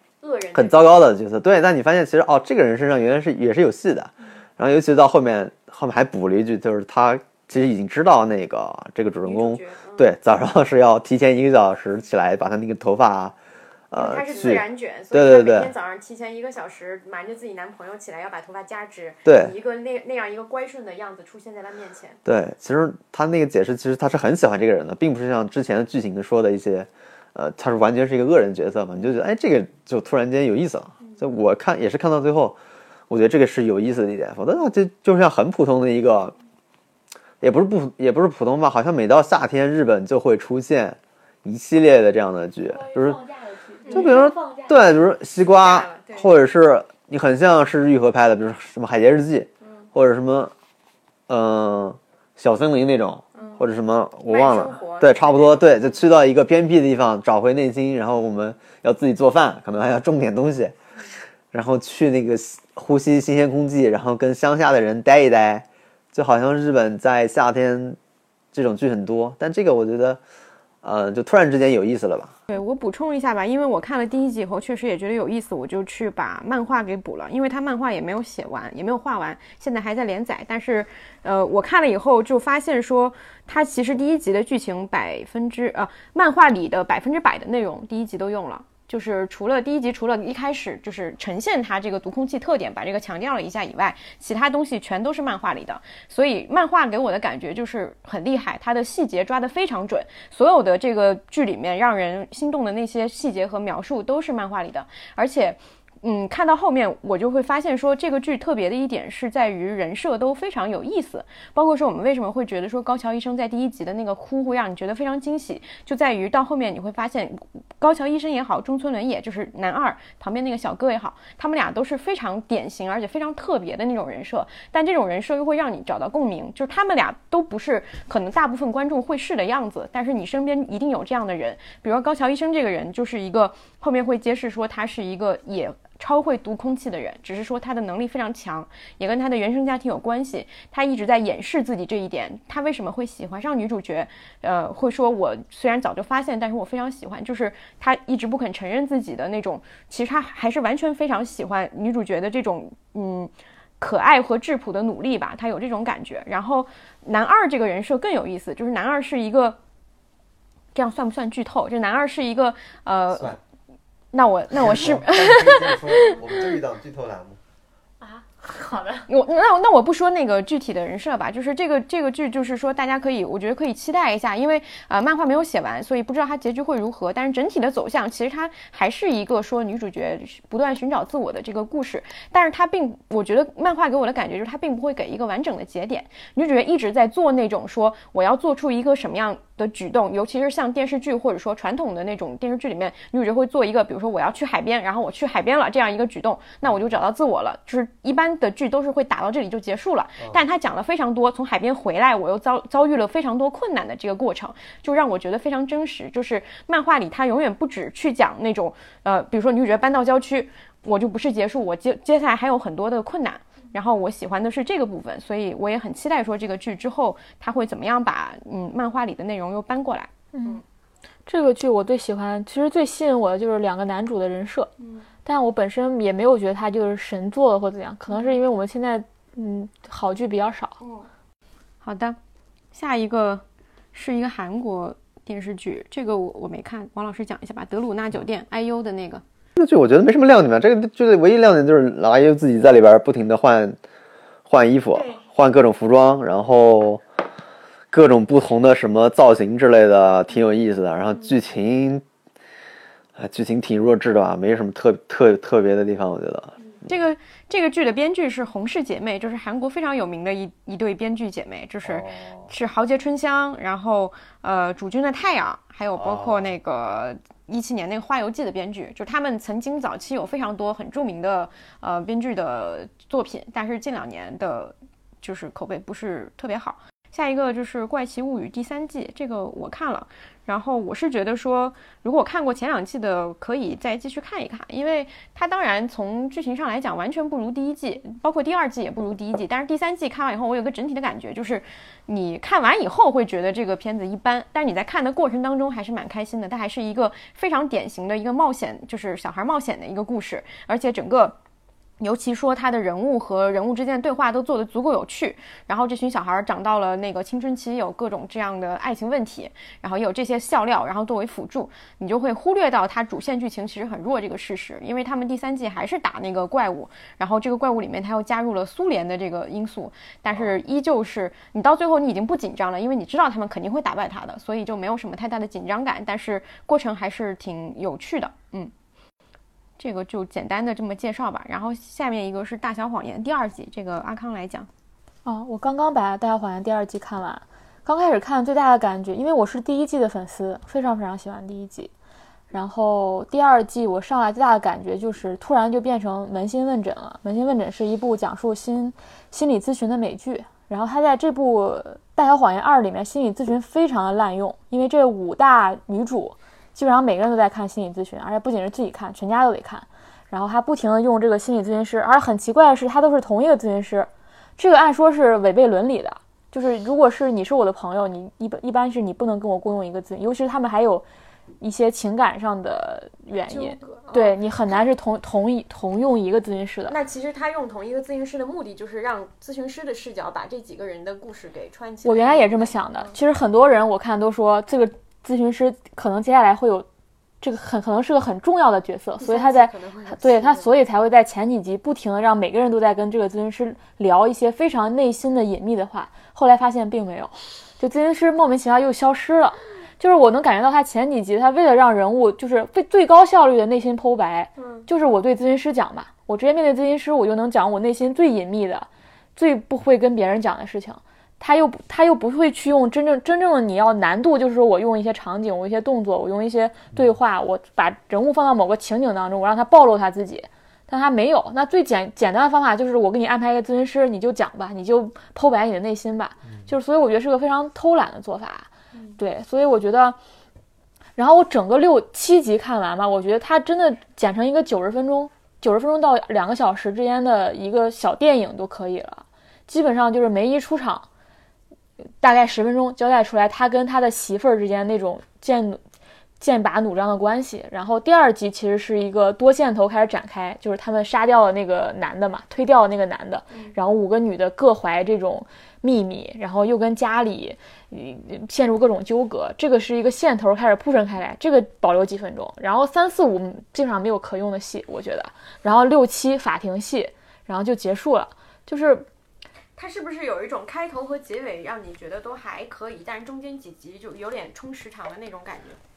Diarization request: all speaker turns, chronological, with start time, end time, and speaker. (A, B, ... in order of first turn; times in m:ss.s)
0:00.2-0:01.0 A
0:00.5-0:13.4 B
0:09.2-0:10.1 A
0:13.9-0:15.7 B
0:14.0-0:22.2 A
0:19.3-0:19.5 B
0:22.3-0:32.6 B
0:33.1-0:36.3 B
0:37.4-0:43.2 B
0:42.7-0:45.0 C
0:43.9-0:44.1 A
0:43.9-0:50.5 B
0:45.5-0:46.3 A
0:51.3-1:00.7 B
0:53.4-0:53.6 A
0:54.3-0:56.0 A
1:01.5-1:08.0 B
1:08.5-1:10.2 B
1:10.8-1:12.3 B
1:12.5-2:39.6 A
2:40.8-2:43.4 A
2:44.1-2:46.6 A
2:44.5-2:47.4 B
2:48.0-2:49.1 C
2:49.1-3:40.6 A
3:40.3-3:40.6 C
3:41.3-3:44.7 C
3:44.8-3:45.1 A
3:45.2-3:50.8 C
3:50.8-3:51.1 A
3:51.8-3:52.2 A
3:52.7-3:59.2 A
3:59.6-4:03.8 B
4:04.5-4:07.0 B
4:04.9-4:05.2 A
4:07.9-4:12.0 B
4:13.2-4:16.5 B
4:16.8-5:01.4 A
4:21.8-4:22.5 B
4:26.0-4:26.5 B
5:02.0-5:28.7 A
5:29.8-5:34.7 A
5:35.2-5:41.9 C
5:42.5-6:11.1 C
6:11.6-6:17.0 C
6:13.5-6:14.4 A
6:16.9-6:23.2 A
6:22.0-6:26.9 C
6:27.4-7:10.2 C
6:29.2-6:30.7 A
6:44.6-6:44.9 A
7:08.9-7:09.2 A
7:11.2-7:21.1 C
7:22.0-7:25.8 C
7:26.4-7:49.1 C
7:49.8-7:55.8 A